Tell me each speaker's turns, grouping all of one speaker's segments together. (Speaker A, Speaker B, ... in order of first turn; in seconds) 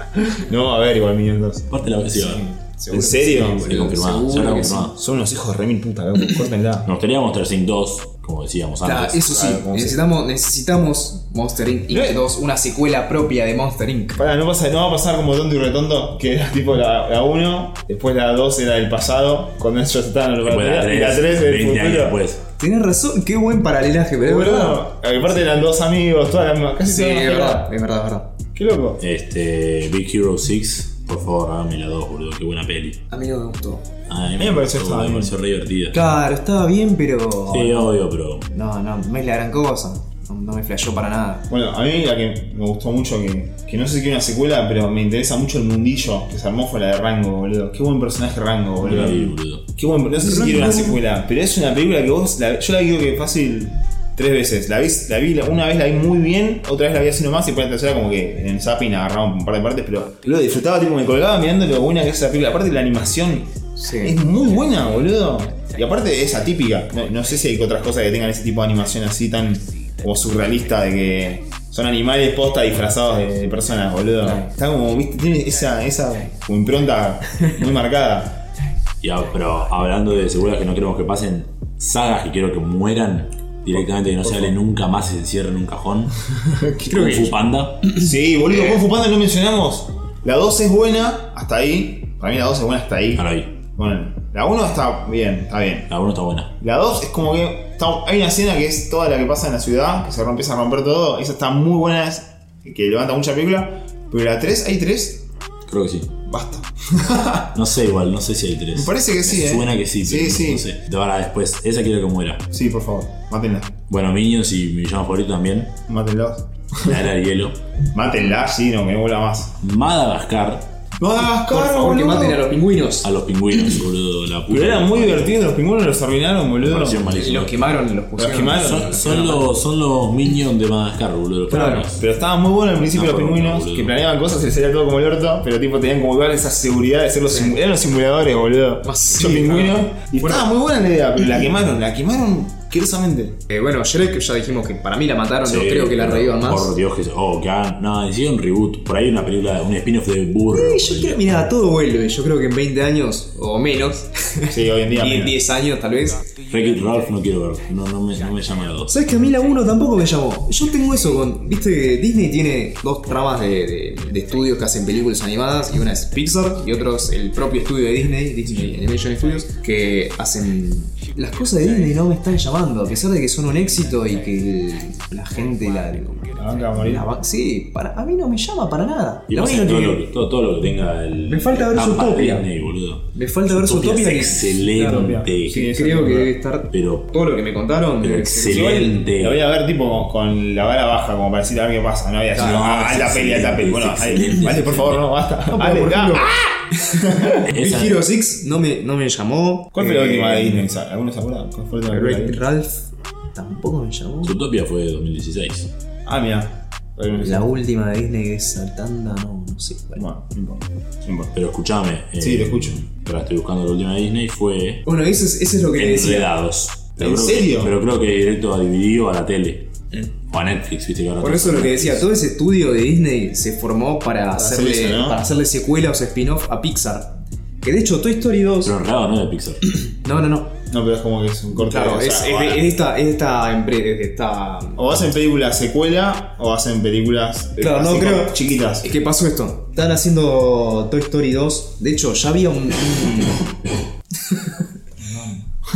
Speaker A: 0.3-1.7, 2.9-3.8, 4.9-6.9, 9.2-10.0, 11.9-12.2, 14.2-22.2, 24.2-27.7, 28.5-29.0, 34.4-35.3, 41.5-78.4, 84.2-84.5, 86.4-87.3, 87.9-95.9, 96.6-105.2, 106.3-107.5, 108.7-110.7, 112.5-113.8, 115.9-117.1, 117.9-119.5, 121.0-122.5, 124.5-127.0, 128.2-129.0, 131.9-143.4, 154.5-155.4, 176.3-177.1, 184.9-186.3, 188.5-196.4, 197.0-197.4, 199.7-202.4, 206.1-207.5, 210.0-211.3, 212.2-212.8, 217.0-217.7, 224.3-225.2, 230.7-232.7, 234.8-238.9, 245.0-245.5
Speaker B: 1.7-2.5, 3.5-4.9, 6.8-9.2, 20.4-22.4, 29.0-33.0, 34.1-36.1, 37.5-38.5, 48.8-49.6, 79.0-86.1, 86.9-87.9, 93.2-93.5, 95.9-96.5, 105.7-106.1, 107.5-112.4, 113.9-115.8, 116.8-117.6, 119.6-120.7, 123.0-125.3, 126.6-127.7, 128.5-132.0, 132.9-133.9, 145.4-151.3, 156.5-158.9, 179.3-185.7, 186.7-187.1, 188.0-189.4, 192.4-195.0, 197.5-198.0, 204.2-205.7, 211.3-214.8, 215.8-219.7, 220.3-222.1, 228.6-229.6
Speaker C: 2.1-4.9, 8.8-14.2, 22.6-24.9, 26.8-28.3, 33.1-33.9, 35.9-37.9, 38.5-41.5, 50.2-51.0, 63.8-64.2, 86.9-87.3, 88.5-88.8, 121.4-123.8, 127.1-129.5, 131.5-131.9, 137.3-137.6, 138.8-140.5, 143.5-146.7, 150.5-156.3, 158.9-180.0, 181.3-182.5, 183.1-189.0, 192.3-192.8, 195.5-200.6, 201.9-204.4, 207.1-210.1, 214.8-216.3, 221.2-228.7, 229.6-230.6, 231.5-234.8, 237.6-243.5, 244.2-244.6